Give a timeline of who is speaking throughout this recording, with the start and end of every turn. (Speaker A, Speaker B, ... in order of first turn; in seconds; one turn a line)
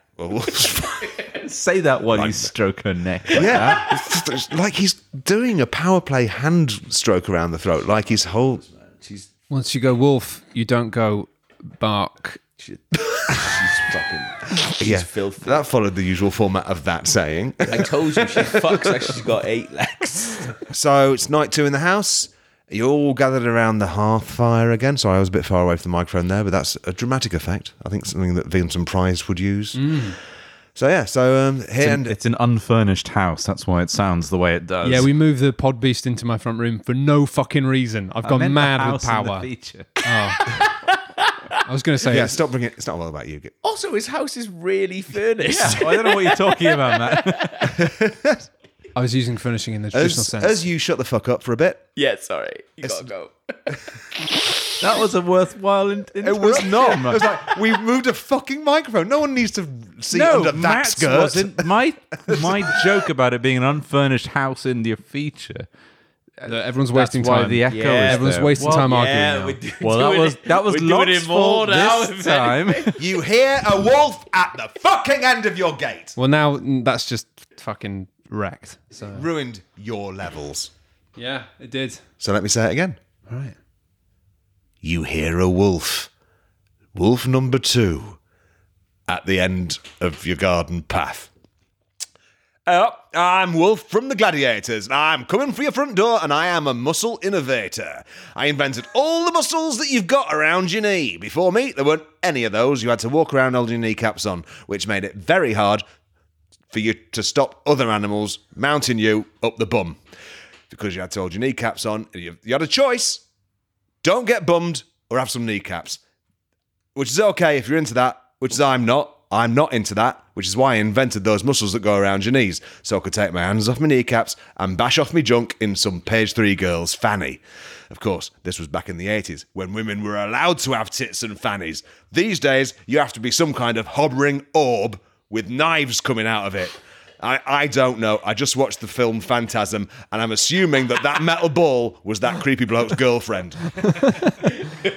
Speaker A: 0.2-1.2
Speaker B: 1.0-1.4
Speaker C: 1.4-3.9
Speaker A: 2.1-2.5
Speaker A: 3.3-8.6
Speaker B: 8.7-9.3
Speaker D: 9.5-12.4
Speaker B: 12.6-15.6
Speaker A: 14.8-18.9
Speaker B: 17.7-20.6
Speaker A: 20.7-30.1
Speaker D: 29.7-30.2
Speaker A: 30.8-32.1
Speaker C: 31.8-35.1
Speaker D: 34.8-39.5
Speaker C: 38.2-40.0
Speaker D: 40.0-40.6
Speaker B: 40.5-41.4
Speaker D: 41.6-42.4
Speaker A: 42.0-43.5
Speaker B: 43.6-47.8
Speaker C: 45.5-47.8
Speaker A: 47.7-48.5
Speaker D: 48.9-50.6
Speaker A: 49.9-51.8
Speaker B: 52.0-53.7
Speaker A: 52.8-53.1
Speaker C: 54.8-57.4
Speaker A: 56.2-62.8
Speaker C: 60.1-65.7
Speaker C: 66.4-69.0
Speaker D: 66.4-69.5
Speaker B: 67.7-73.0
Speaker C: 69.8-73.0
Speaker A: 73.0-76.1
Speaker D: 76.2-79.2
Speaker A: 79.1-80.7
Speaker D: 81.2-82.0
Speaker A: 82.2-83.0
Speaker D: 83.3-83.5
Speaker A: 84.8-86.1
Speaker A: 86.9-88.2
Speaker A: 89.1-91.3
Speaker A: 92.7-105.8
Speaker A: 106.7-110.0
Speaker A: 110.7-113.2
Speaker A: 114.0-116.0
Speaker A: 116.9-144.2